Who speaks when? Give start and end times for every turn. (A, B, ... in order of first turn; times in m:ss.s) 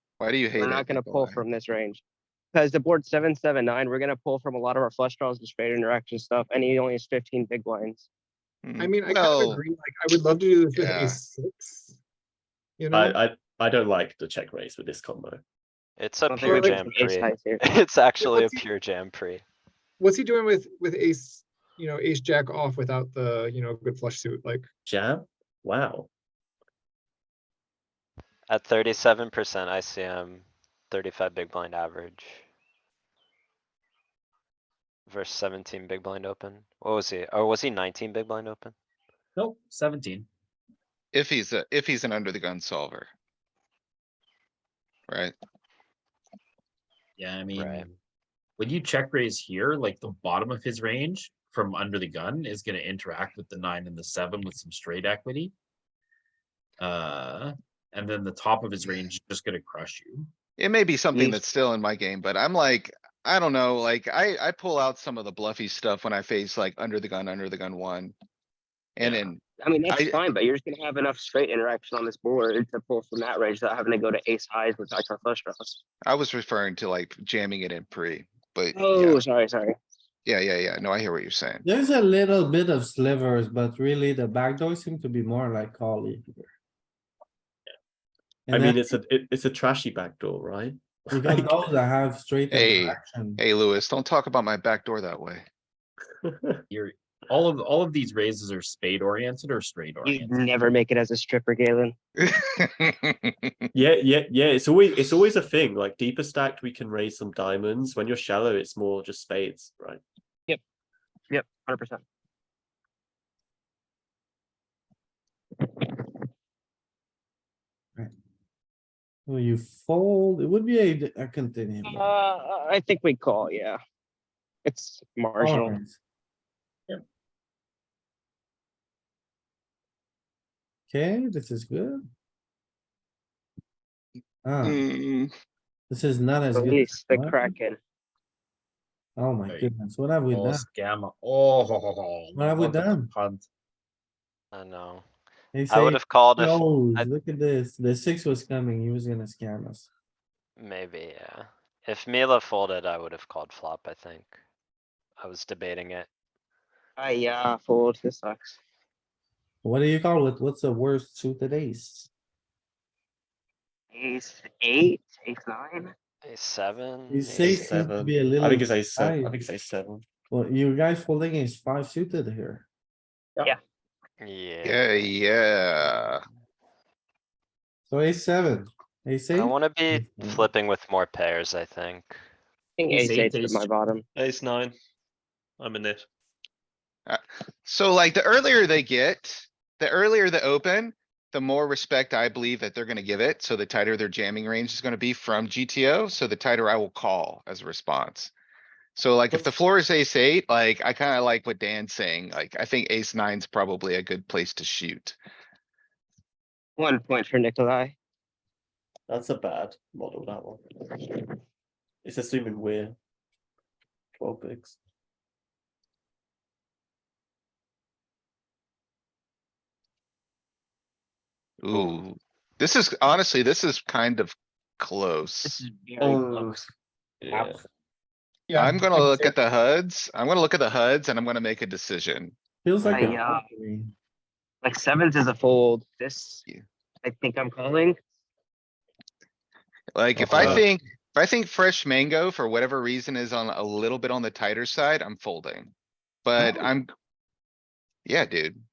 0:00.2-0:01.4 A
0:00.6-0:02.0 B
0:02.5-0:08.1 B
0:08.6-0:09.6 A
0:08.8-0:12.0 C
0:10.8-0:11.2 A
0:12.8-0:13.2 C
0:12.9-0:15.4 D
0:16.0-0:19.4 E
0:16.3-0:17.6 B
0:16.5-0:16.8 C
0:18.2-0:18.6 C
0:20.0-0:24.6 C
0:24.8-0:26.1 D
0:28.5-0:32.4 E
0:35.1-0:38.7 E
0:39.4-0:40.3 F
0:41.1-0:43.1 A
0:45.1-0:45.3 A
0:47.2-0:47.9 F
0:47.5-0:47.8 E
0:48.6-0:55.5 F
0:56.8-1:00.3 F
1:00.6-1:08.1 A
1:01.1-1:01.4 B
1:09.0-1:10.2 A
1:09.0-1:09.3 F
1:09.6-1:15.8 B
1:16.0-1:19.2 A
1:18.7-1:19.7 B
1:20.2-1:21.6 A
1:21.6-1:26.5 G
1:28.5-1:28.9 G
1:28.5-1:31.5 D
1:31.1-1:33.4 G
1:32.5-1:35.4 A
1:36.2-1:36.6 D
1:36.7-1:40.4 F
1:40.0-1:41.9 B
1:42.2-1:43.5 A
1:43.7-1:50.0 D
1:51.3-1:52.0 B
1:59.3-2:02.0 G
2:01.9-2:03.8 B
2:04.6-2:05.8 B
2:05.4-2:06.0 G
2:10.9-2:12.0 G
2:14.4-2:14.8 G
2:14.6-2:15.3 A
2:15.9-2:17.5 G
2:16.5-2:17.8 B
2:19.2-2:20.7 G
2:19.5-2:19.7 F
2:20.3-2:23.5 F
2:22.3-2:23.1 G
2:24.5-2:25.0 E
2:25.5-2:29.9 G
2:25.7-2:27.1 E
2:30.6-2:34.3 E
2:35.2-2:36.1 E
2:37.0-2:38.6 B
2:39.6-2:42.1 G
2:43.9-2:45.9 B
2:46.2-2:47.6 E
2:47.1-2:49.4 G
2:47.4-2:50.0 D
2:50.3-2:52.6 G
2:54.2-2:54.8 E
2:54.6-2:56.2 A
2:57.9-3:00.5 G
2:59.3-3:02.1 E
3:02.8-3:04.0 B
3:02.9-3:03.7 F
3:04.2-3:04.7 D
3:05.6-3:06.0 D
3:07.1-3:18.3 A
3:19.0-3:25.2 A
3:26.8-3:28.0 B
3:29.1-3:30.6 D
3:32.0-3:33.0 D
3:34.2-3:34.7 D
3:41.6-3:45.6 A
3:45.4-3:46.6 B
3:46.0-3:46.6 D
3:47.2-3:47.6 D
3:48.5-3:49.3 C
3:48.6-3:52.3 A
3:52.6-3:53.9 G
3:52.9-3:53.4 B
3:54.6-3:56.4 B
3:57.0-3:58.0 B
3:59.9-4:05.7 A
4:06.2-4:06.9 A
4:08.0-4:08.6 A